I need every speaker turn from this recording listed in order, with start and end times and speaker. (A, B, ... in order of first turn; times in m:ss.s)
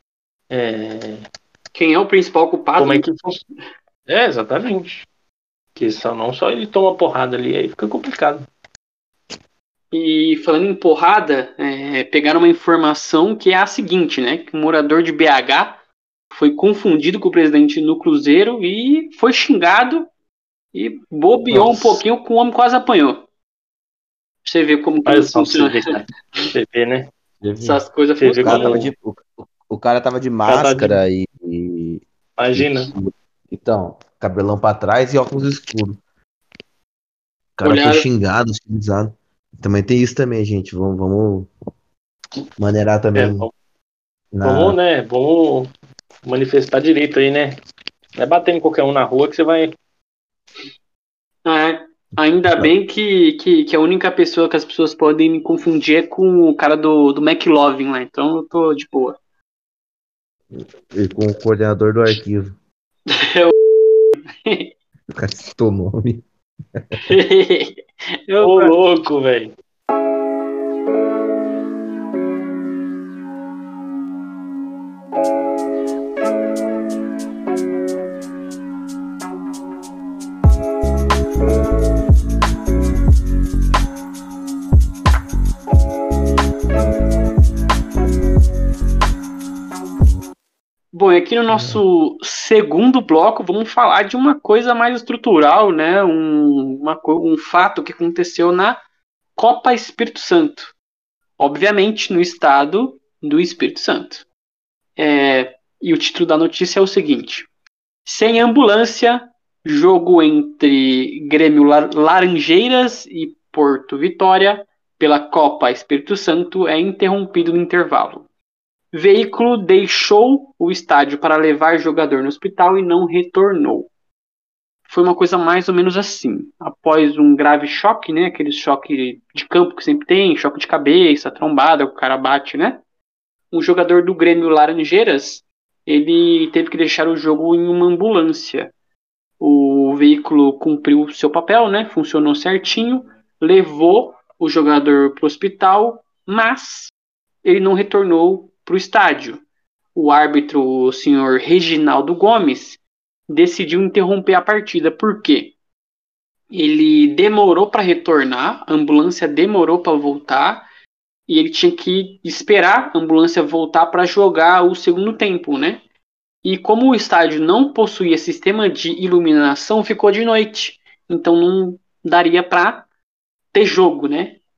0:00.5-0:01.2 A
0:01.7-0:03.0 B
0:02.8-0:03.4 A
0:04.1-0:05.0 A
0:05.8-0:08.5 A
0:09.9-0:15.8 B
0:16.3-0:20.1 B
0:20.7-0:23.2 B
0:24.4-0:25.8 B
0:25.1-0:27.1 A
0:27.4-0:27.8 C
0:27.6-0:28.7 B
0:28.2-0:28.9 A
0:28.4-0:32.0 C
0:30.5-0:31.0 A
0:32.4-0:32.9 A
0:32.6-0:36.0 C
0:37.6-0:41.5 C
0:37.6-0:38.1 B
0:42.6-0:43.5 C
0:43.1-0:43.5 A
0:44.3-0:44.8 C
0:44.4-0:45.7 A
0:46.2-0:47.6 A
0:48.2-0:49.8 A
0:51.4-0:59.2 B
1:00.6-1:02.6 C
1:03.1-1:03.5 B
1:04.3-1:04.7 B
1:05.1-1:06.2 C
1:07.0-1:08.7 B
1:08.4-1:09.5 A
1:30.9-1:38.8 B
1:31.5-1:31.8 C
1:39.4-1:40.7 B
1:41.4-1:44.2 B
1:45.0-1:47.5 B
1:48.1-1:58.2 B
1:58.9-2:03.9 B
2:04.9-2:12.8 B
2:13.5-2:18.7 B
2:19.4-2:26.9 B
2:27.4-2:29.4 B
2:30.0-2:35.5 B
2:36.5-2:40.6 B
2:41.3-2:45.8 B
2:46.4-2:52.9 B
2:53.5-2:54.4 B